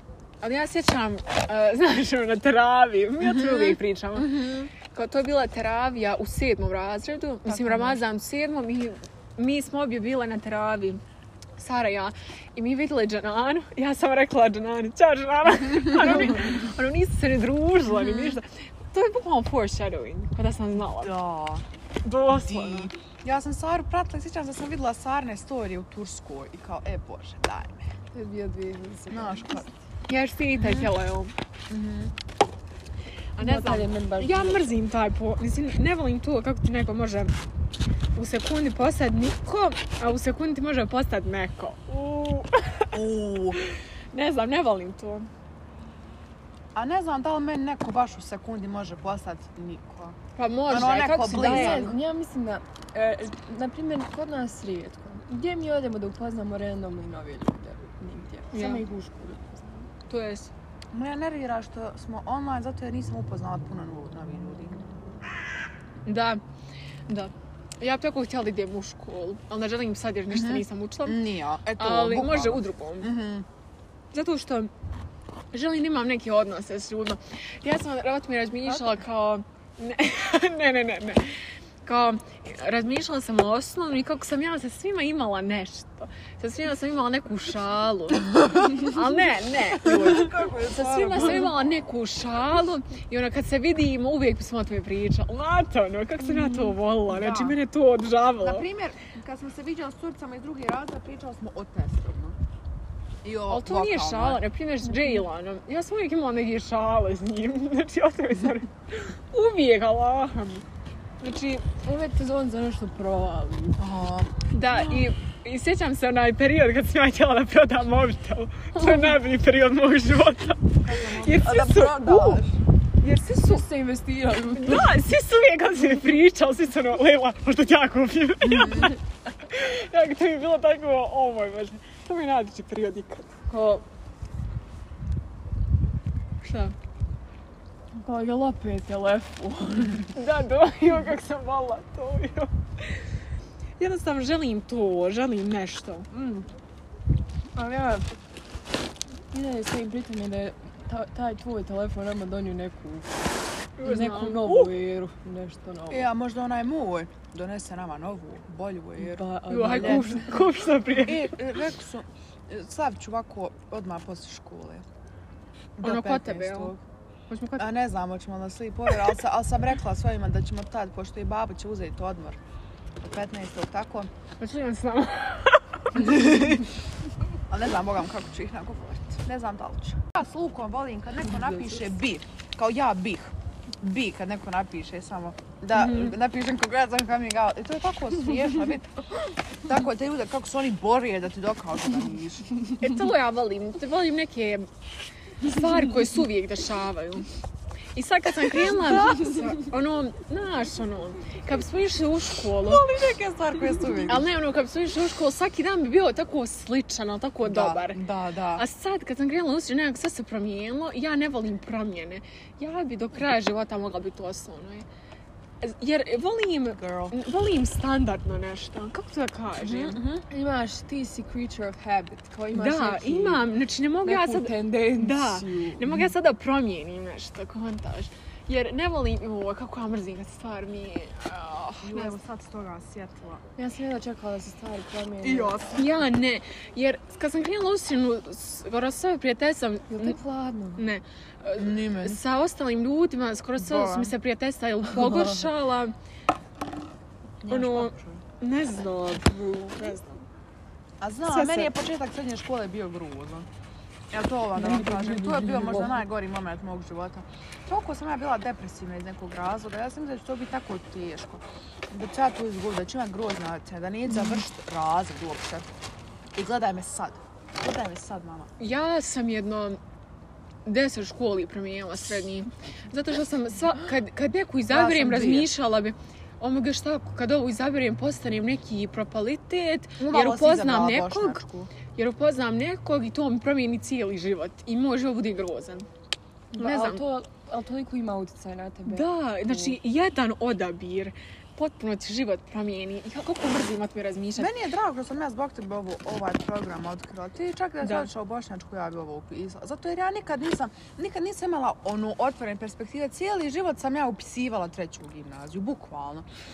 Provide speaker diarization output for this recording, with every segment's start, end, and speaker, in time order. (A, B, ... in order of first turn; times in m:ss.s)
0:00.4-0:11.0 A
0:03.2-0:04.7 B
0:07.5-0:07.8 C
0:07.5-0:08.0 B
0:11.6-0:21.1 A
0:15.9-0:16.4 B
0:17.9-0:18.4 B
0:20.8-0:21.6 B
0:22.0-0:22.9 A
0:22.3-0:27.9 B
0:28.1-0:29.8 C
0:29.1-0:29.7 B
0:30.1-0:31.3 A
0:30.6-0:30.9 B
0:31.7-0:32.1 B
0:33.4-0:37.3 A
0:33.4-0:34.7 C
0:38.1-0:43.0 A
0:42.9-0:43.6 B
0:43.5-0:45.3 A
0:46.8-0:51.9 B
0:50.4-0:52.0 A
0:51.3-0:59.9 C
0:58.5-0:58.8 A
1:00.1-1:00.5 A
1:00.9-1:04.9 B
1:06.0-1:06.4 A
1:07.1-1:11.2 A
1:10.3-1:13.5 B
1:11.8-1:13.1 A
1:14.1-1:14.7 A
1:15.5-1:38.7 A
1:29.8-1:31.6 B
1:36.4-1:36.7 C
1:37.1-1:37.6 B
1:38.4-1:42.4 B
1:43.2-1:44.4 B
1:43.5-1:50.6 A
1:44.8-1:45.2 C
1:51.2-1:51.7 A
1:51.8-1:53.8 C
1:53.8-1:55.0 B
1:54.5-2:02.4 A
1:58.8-1:59.2 C
2:00.8-2:02.6 B
2:03.0-2:03.7 A
2:03.1-2:05.0 C
2:04.6-2:13.4 A
2:08.4-2:09.0 B
2:13.5-2:13.9 C
2:16.4-2:16.8 A
2:17.9-2:20.1 C
2:20.0-2:23.0 A
2:23.8-2:26.1 A
2:26.1-2:26.5 C
2:27.6-2:28.1 C
2:29.3-2:33.2 C
2:33.8-2:34.7 A
2:33.8-2:36.1 C
2:35.9-2:40.2 B
2:39.0-2:40.4 C
2:39.5-2:41.3 A
2:41.0-2:44.8 B
2:45.8-2:46.8 B
2:45.8-2:46.8 A
2:47.3-2:47.7 A
2:47.6-2:52.4 B
2:53.0-2:54.1 B
2:54.4-2:56.7 A
2:57.5-3:09.0 B
3:05.7-3:06.2 A
3:09.6-3:12.5 B
3:12.8-3:14.7 A
3:15.4-3:17.2 A
3:18.0-3:22.9 A
3:18.5-3:19.4 B
3:22.6-3:24.3 B
3:24.1-3:28.0 A
3:27.4-3:28.6 B
3:28.6-3:34.9 A
3:35.6-3:40.0 A
3:36.7-3:37.2 B
3:39.6-3:40.2 B
3:40.3-3:43.5 C
3:42.5-3:52.2 A
3:44.0-3:46.0 C
3:51.8-3:53.4 B
3:53.6-3:55.7 C
3:55.2-3:56.1 B
3:55.7-4:00.2 A
3:59.9-4:00.9 C
4:00.8-4:05.9 A
4:01.6-4:02.2 B
4:03.6-4:04.1 B
4:04.9-4:05.5 C
4:07.4-4:08.2 B
4:07.5-4:10.2 A
4:11.0-4:13.5 B
4:11.2-4:11.7 A
4:14.1-4:25.7 B
4:14.6-4:16.0 C
4:26.4-4:28.5 B
4:28.6-4:29.8 A
4:30.7-4:45.9 A
4:34.7-4:35.5 B
4:40.0-4:41.7 B
4:46.5-4:49.8 C
4:46.6-4:47.0 A
4:48.9-4:54.5 A
4:54.4-5:06.3 B
4:57.8-4:58.1 A